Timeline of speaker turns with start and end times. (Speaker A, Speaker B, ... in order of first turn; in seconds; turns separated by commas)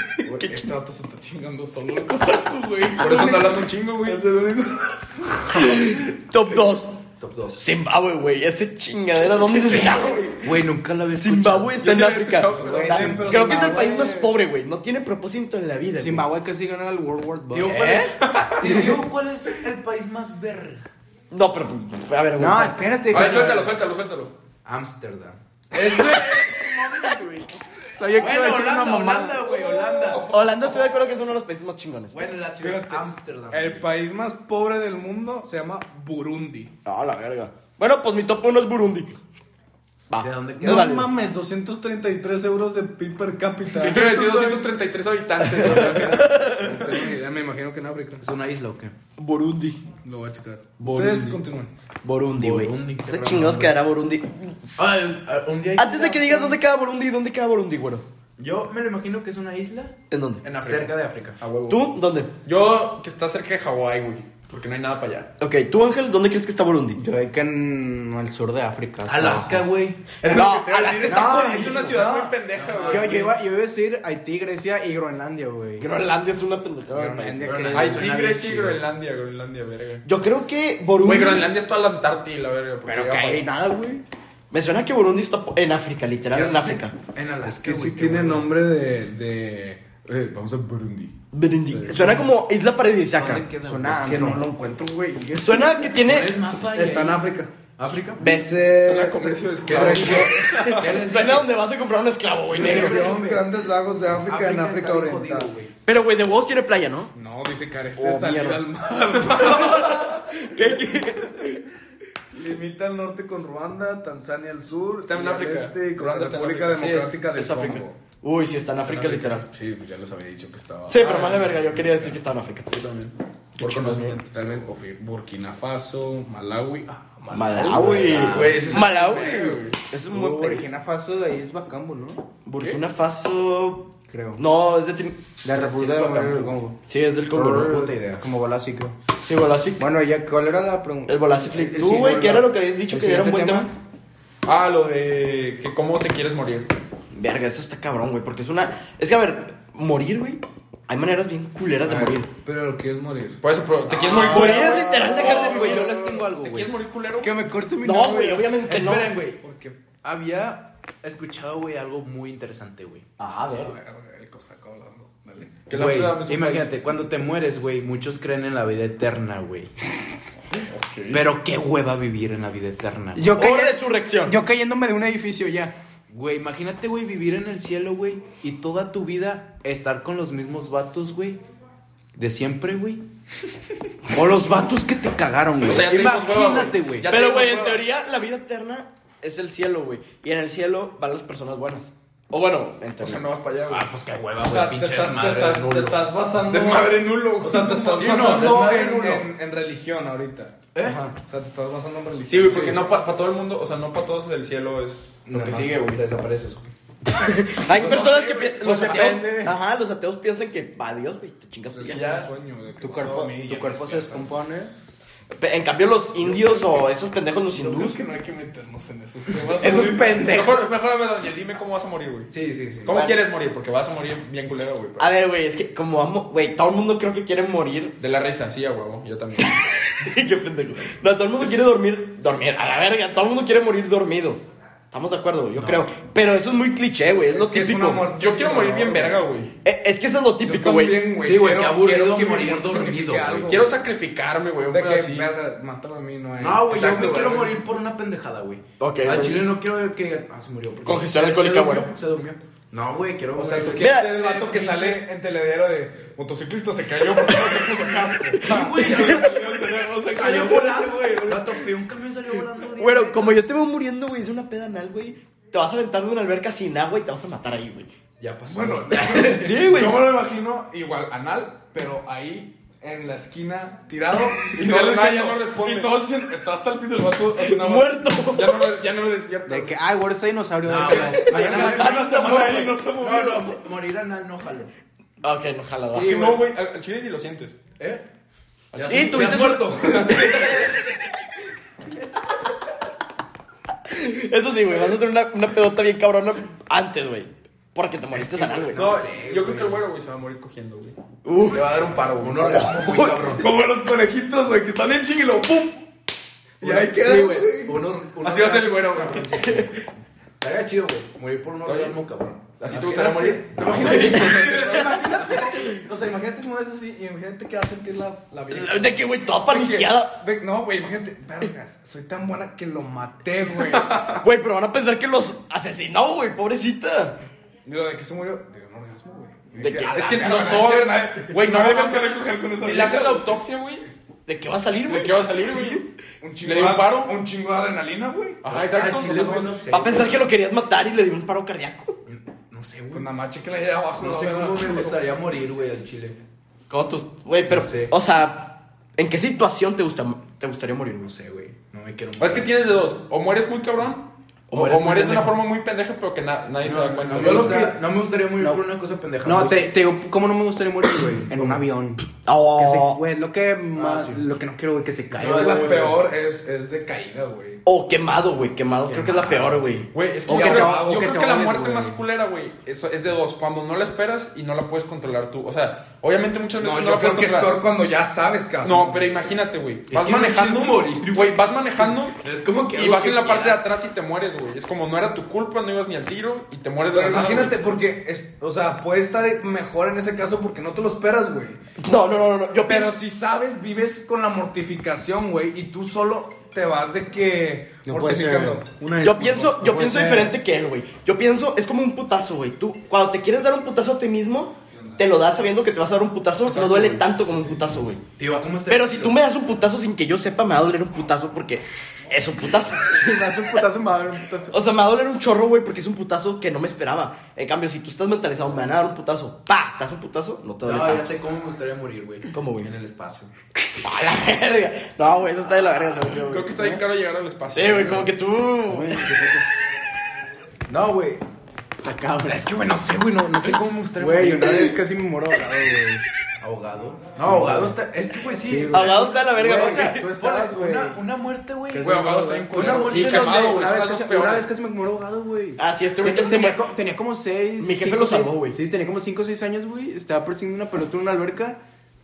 Speaker A: 0.2-0.6, Speaker B: 0.2-6.0, Speaker C: 3.0-4.2, Speaker A: 5.5-7.0, Speaker D: 7.2-7.6, Speaker A: 7.5-10.5, Speaker D: 10.3-11.8, Speaker A: 11.1-16.3, Speaker C: 11.8-13.3, Speaker B: 12.6-14.3, Speaker E: 12.6-14.1, Speaker E: 15.9-18.1, Speaker D: 17.5-20.9, Speaker A: 17.7-18.0, Speaker C: 18.2-18.9, Speaker A: 21.3-23.1, Speaker E: 22.4-23.8, Speaker C: 23.1-24.3, Speaker D: 23.1-23.5, Speaker D: 24.6-25.4, Speaker B: 25.8-29.7, Speaker E: 28.0-28.5, Speaker D: 28.1-30.3, Speaker A: 30.1-32.2, Speaker D: 32.1-33.9, Speaker B: 32.6-36.7, Speaker A: 36.8-39.2, Speaker A: 40.1-41.1, Speaker D: 40.2-40.9, Speaker B: 40.6-44.7, Speaker C: 43.7-46.4, Speaker B: 45.5-48.2, Speaker A: 45.6-46.8, Speaker D: 48.2-48.9, Speaker A: 49.2-49.8, Speaker B: 50.0-51.7, Speaker A: 50.8-51.4, Speaker A: 52.0-54.7, Speaker D: 52.4-53.7, Speaker D: 54.8-56.6, Speaker A: 55.8-58.0, Speaker D: 58.4-61.4, Speaker A: 60.1-60.4, Speaker C: 60.4-61.9, Speaker A: 61.7-62.3, Speaker C: 62.4-65.3, Speaker A: 65.4-67.0, Speaker E: 67.0-69.6, Speaker D: 69.0-70.1, Speaker C: 70.2-73.3, Speaker A: 70.2-71.8, Speaker E: 71.0-75.9, Speaker D: 71.3-71.7, Speaker D: 72.5-73.3, Speaker A: 75.8-77.7, Speaker E: 76.9-78.1, Speaker C: 77.5-80.0, Speaker D: 77.5-78.8, Speaker A: 80.0-81.5, Speaker C: 81.0-83.5, Speaker E: 82.8-84.0, Speaker A: 84.5-86.9, Speaker D: 86.3-88.5, Speaker B: 87.4-91.2, Speaker A: 91.3-93.4, Speaker B: 91.7-92.2, Speaker D: 93.2-94.4, Speaker E: 93.6-95.9, Speaker A: 94.1-94.7, Speaker A: 95.4-96.3, Speaker D: 96.0-98.2, Speaker B: 96.8-97.5, Speaker A: 98.2-98.5, Speaker B: 98.3-100.2, Speaker C: 98.8-100.8, Speaker D: 99.7-101.5, Speaker E: 99.7-100.3, Speaker A: 99.9-103.2, Speaker D: 102.5-103.4, Speaker E: 102.5-105.5, Speaker B: 102.6-103.5, Speaker D: 104.2-105.7, Speaker A: 105.8-107.1, Speaker B: 107.1-110.6, Speaker A: 108.0-108.6, Speaker A: 109.3-111.6, Speaker B: 112.3-118.0, Speaker C: 115.1-116.9, Speaker A: 116.7-119.5, Speaker B: 118.9-121.4, Speaker A: 120.9-122.8, Speaker C: 121.0-122.1, Speaker C: 122.7-124.6, Speaker B: 123.6-128.3, Speaker A: 127.3-130.7, Speaker D: 127.6-129.2, Speaker C: 128.1-129.7, Speaker E: 130.1-132.2, Speaker A: 132.4-135.2, Speaker E: 134.1-134.4, Speaker E: 135.4-136.8, Speaker D: 135.5-136.5, Speaker A: 136.9-137.9, Speaker E: 137.3-139.0, Speaker A: 139.2-139.8, Speaker E: 139.8-143.7, Speaker A: 141.1-143.7, Speaker C: 144.4-146.7, Speaker A: 147.1-152.3, Speaker B: 151.9-153.4, Speaker C: 153.4-157.4, Speaker A: 153.9-155.9, Speaker E: 154.1-155.8, Speaker D: 155.2-156.7, Speaker B: 157.2-158.0, Speaker E: 157.2-158.5, Speaker A: 157.8-159.2, Speaker D: 158.7-159.4, Speaker B: 159.3-159.8, Speaker D: 160.0-163.1, Speaker A: 163.2-163.7, Speaker B: 163.5-165.7, Speaker C: 165.7-166.8, Speaker D: 165.7-169.7, Speaker C: 170.5-171.2, Speaker D: 171.1-173.3, Speaker E: 173.2-175.7, Speaker A: 173.3-174.4, Speaker D: 176.1-181.4, Speaker D: 182.1-183.0, Speaker D: 184.1-187.1, Speaker C: 185.6-187.8, Speaker A: 187.1-193.2, Speaker C: 193.0-193.9, Speaker D: 193.7-196.1, Speaker B: 194.4-202.8, Speaker C: 196.5-198.7, Speaker D: 197.9-199.3, Speaker A: 200.8-201.1, Speaker C: 202.3-206.0, Speaker D: 205.3-206.7, Speaker A: 207.1-212.1, Speaker C: 207.7-209.2, Speaker D: 207.7-208.1, Speaker D: 208.7-209.3, Speaker B: 211.7-214.3, Speaker C: 211.9-212.3, Speaker E: 212.8-214.7, Speaker A: 215.3-218.0, Speaker B: 216.2-216.6, Speaker B: 217.5-220.3, Speaker E: 219.5-220.6, Speaker C: 220.2-222.3, Speaker D: 222.3-223.0, Speaker C: 222.8-225.1, Speaker A: 222.9-223.2, Speaker A: 225.0-228.0, Speaker C: 228.0-229.6, Speaker A: 230.0-238.1, Speaker D: 235.6-235.8, Speaker B: 237.2-239.2, Speaker C: 238.1-239.5, Speaker A: 239.6-241.1, Speaker B: 240.4-243.7, Speaker D: 241.2-243.6, Speaker C: 243.5-245.3, Speaker B: 244.7-247.2, Speaker D: 246.4-255.0, Speaker C: 246.7-247.5, Speaker A: 248.8-249.5, Speaker A: 250.8-251.9, Speaker B: 253.3-261.6, Speaker A: 253.7-254.4, Speaker D: 258.4-259.4, Speaker A: 258.4-259.5, Speaker D: 260.0-263.6, Speaker A: 262.7-267.9, Speaker D: 268.2-269.9, Speaker B: 268.5-277.9, Speaker A: 269.4-270.1, Speaker C: 274.5-276.1, Speaker A: 277.4-278.7, Speaker C: 278.3-279.8, Speaker E: 279.5-281.7, Speaker D: 280.6-284.7, Speaker B: 280.9-283.4, Speaker A: 281.2-282.8, Speaker A: 285.2-286.4, Speaker C: 285.9-287.6, Speaker D: 287.8-288.1, Speaker C: 288.7-289.6, Speaker D: 288.7-290.7, Speaker A: 288.8-290.7, Speaker A: 293.8-298.9, Speaker D: 298.1-299.8, Speaker C: 298.7-301.0, Speaker A: 301.2-301.9, Speaker C: 301.5-302.6, Speaker D: 302.1-303.5, Speaker A: 302.4-303.2, Speaker B: 303.2-305.9, Speaker B: 306.6-307.9, Speaker D: 306.6-309.9, Speaker C: 308.2-309.4, Speaker D: 310.4-312.6, Speaker C: 311.6-312.0, Speaker C: 312.6-315.3, Speaker B: 312.6-324.0, Speaker D: 313.5-315.0, Speaker A: 313.8-314.2, Speaker A: 318.5-320.2, Speaker C: 323.6-324.2, Speaker A: 324.1-327.2, Speaker B: 327.6-333.4, Speaker A: 329.6-330.0, Speaker C: 329.9-333.9, Speaker A: 334.2-335.8, Speaker C: 334.9-335.9, Speaker B: 336.2-338.5, Speaker C: 336.4-337.2, Speaker C: 338.4-339.6, Speaker D: 338.7-340.2, Speaker A: 339.7-342.0, Speaker D: 342.1-343.1, Speaker B: 342.9-345.0, Speaker D: 344.0-346.2, Speaker A: 346.7-351.1, Speaker D: 347.5-347.9, Speaker D: 351.0-352.5, Speaker C: 352.2-357.7, Speaker A: 354.5-355.3, Speaker D: 356.6-359.7, Speaker E: 357.1-357.8, Speaker E: 359.2-365.9, Speaker D: 361.3-361.6, Speaker A: 362.2-363.0, Speaker D: 363.7-364.3, Speaker D: 365.1-366.0, Speaker B: 365.2-367.6, Speaker A: 367.6-370.8, Speaker D: 368.8-369.8, Speaker C: 369.9-377.6, Speaker B: 370.3-371.9, Speaker E: 370.3-371.5, Speaker B: 376.6-379.3, Speaker C: 378.6-382.1, Speaker D: 379.9-383.6, Speaker C: 382.7-387.6, Speaker B: 386.9-391.6, Speaker A: 391.8-392.9, Speaker B: 392.6-400.3, Speaker E: 397.9-398.6, Speaker A: 399.0-408.0, Speaker C: 406.5-407.2, Speaker D: 408.2-409.2, Speaker A: 408.7-413.5, Speaker E: 412.9-414.6, Speaker A: 414.5-421.1, Speaker D: 420.6-423.3, Speaker A: 422.3-422.7, Speaker A: 423.8-426.5, Speaker C: 426.3-428.1, Speaker A: 427.5-429.3, Speaker E: 428.7-429.4, Speaker D: 430.7-431.2, Speaker A: 431.8-432.4, Speaker D: 432.2-434.8, Speaker E: 434.0-436.0, Speaker D: 436.4-443.7, Speaker E: 437.2-437.8, Speaker E: 438.4-441.0, Speaker A: 438.7-440.1, Speaker E: 441.7-451.6, Speaker C: 441.8-444.5, Speaker A: 445.6-446.6, Speaker A: 447.6-448.6